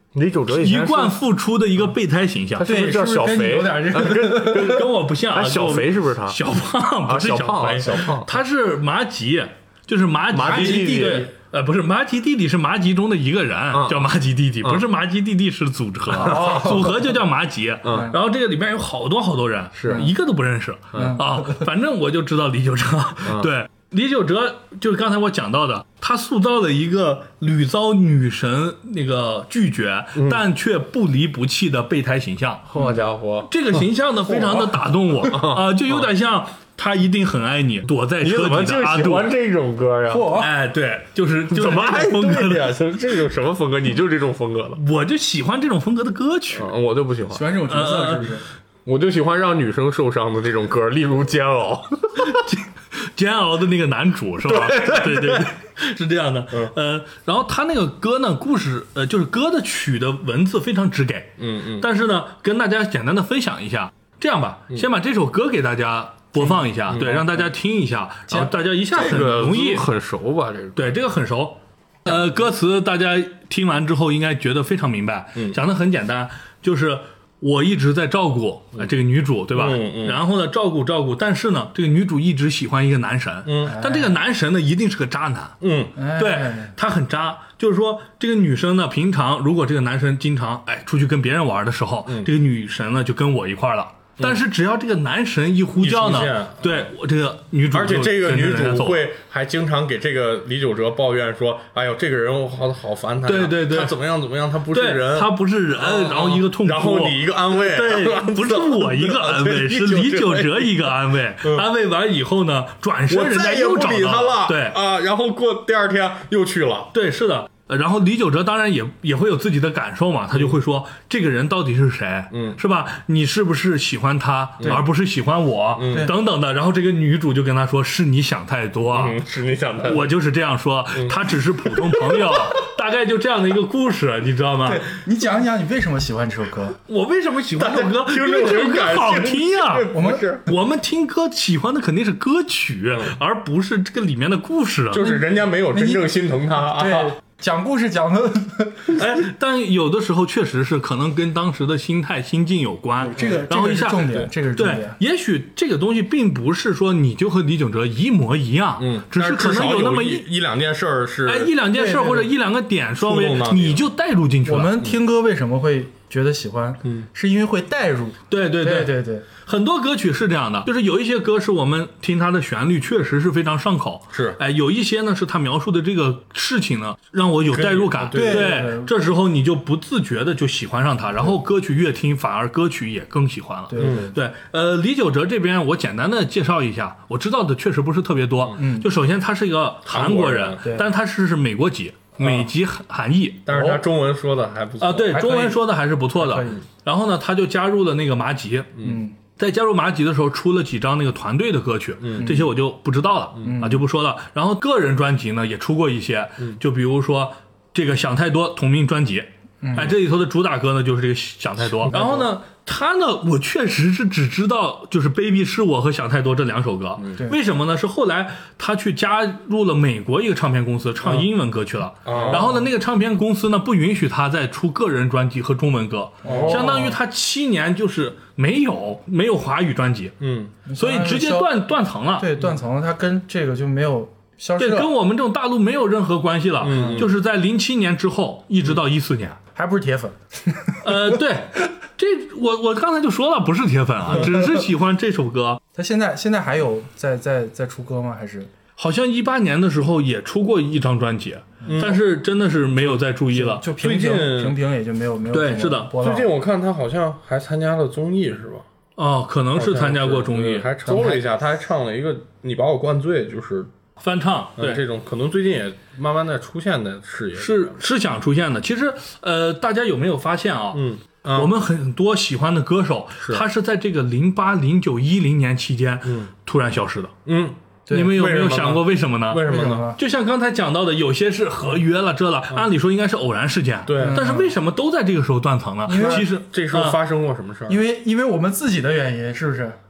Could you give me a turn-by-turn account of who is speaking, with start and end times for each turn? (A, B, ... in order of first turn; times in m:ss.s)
0:00.1-0:01.2 A
0:00.5-0:02.7 B
0:02.6-0:06.4 A
0:02.6-0:04.8 C
0:04.2-0:32.6 B
0:07.0-0:08.4 A
0:10.3-0:11.3 A
0:10.6-0:11.2 C
0:13.7-0:14.1 A
0:16.1-0:16.9 A
0:16.2-0:17.1 C
0:17.8-0:18.1 A
0:17.9-0:18.2 C
0:19.7-0:20.1 A
0:20.9-0:21.2 A
0:21.0-0:21.7 C
0:23.2-0:23.5 A
0:30.1-0:30.4 A
0:32.6-0:36.1 A
0:33.5-0:39.3 B
0:38.2-0:40.4 A
0:40.1-0:40.5 C
0:40.3-0:42.7 B
0:41.5-0:44.8 A
0:44.7-0:46.7 B
0:46.5-0:47.5 A
0:47.3-0:48.4 C
0:47.7-0:48.4 B
0:48.8-0:52.5 A
0:52.2-1:09.9 B
0:54.5-0:55.5 A
1:01.4-1:01.9 A
1:06.9-1:07.3 A
1:08.9-1:10.9 A
1:10.8-1:25.6 B
1:19.5-1:20.2 A
1:23.4-1:23.8 A
1:23.7-1:24.2 C
1:25.6-1:26.0 A
1:26.0-1:26.7 C
1:26.2-1:39.0 B
1:35.8-1:36.9 A
1:37.7-1:51.6 A
1:43.2-1:43.9 B
1:44.7-1:54.8 B
1:53.1-1:56.9 A
1:56.9-2:09.2 B
2:00.3-2:00.6 A
2:02.3-2:02.6 A
2:05.7-2:06.1 A
2:08.9-2:10.1 A
2:09.8-2:14.8 B
2:10.9-2:12.6 A
2:14.6-2:16.8 C
2:16.9-2:19.9 B
2:17.6-2:20.4 A
2:19.9-2:20.3 C
2:20.4-2:25.0 B
2:24.9-2:27.2 A
2:25.0-2:26.0 C
2:26.6-2:29.0 C
2:28.9-2:40.3 B
2:33.0-2:35.0 C
2:33.2-2:33.4 A
2:38.8-2:41.5 A
2:41.2-2:44.7 B
2:41.7-2:42.3 C
2:43.0-2:43.8 A
2:44.4-2:49.2 C
2:48.3-3:13.4 B
2:54.1-2:54.4 A
2:57.5-2:58.6 A
2:58.1-2:58.9 C
3:03.7-3:04.1 C
3:03.8-3:04.2 A
3:08.6-3:08.9 C
3:09.8-3:10.8 A
3:10.6-3:10.9 C
3:12.2-3:12.5 A
3:13.4-3:15.3 A
3:13.5-3:13.8 C
3:14.8-3:18.8 B
3:15.1-3:16.6 C
3:18.8-3:19.1 C
3:19.3-3:50.2 B
3:22.0-3:22.3 A
3:22.2-3:22.5 C
3:23.4-3:23.8 C
3:29.6-3:30.0 C
3:31.9-3:32.3 C
3:42.0-3:42.5 A
3:42.1-3:42.6 C
3:46.2-3:46.9 A
3:46.2-3:47.0 C
3:50.2-3:50.5 A
3:50.6-3:51.6 C
3:50.8-3:52.3 B
3:52.2-3:54.9 C
3:54.6-3:59.4 B
3:56.6-3:57.1 A
3:56.7-3:57.0 C
3:59.5-4:01.2 C
4:00.8-4:05.6 B
4:05.7-4:08.5 C
4:08.8-4:14.3 B
4:11.6-4:12.0 A
4:12.8-4:16.3 C
4:13.9-4:14.6 A
4:15.3-4:15.9 B
4:16.0-4:18.6 A
4:19.0-4:21.2 B
4:19.5-4:23.7 A
4:24.0-4:24.8 B
4:24.6-4:27.8 A
4:27.4-4:37.1 B
4:30.7-4:31.5 A
4:36.0-4:36.3 A
4:37.2-4:39.9 A
4:37.9-4:38.2 C
4:37.9-4:47.0 B
4:39.4-4:40.0 C
4:43.8-4:44.4 A
4:43.9-4:44.5 C
4:45.8-4:46.3 C
4:45.9-4:47.8 A
4:47.7-4:49.8 C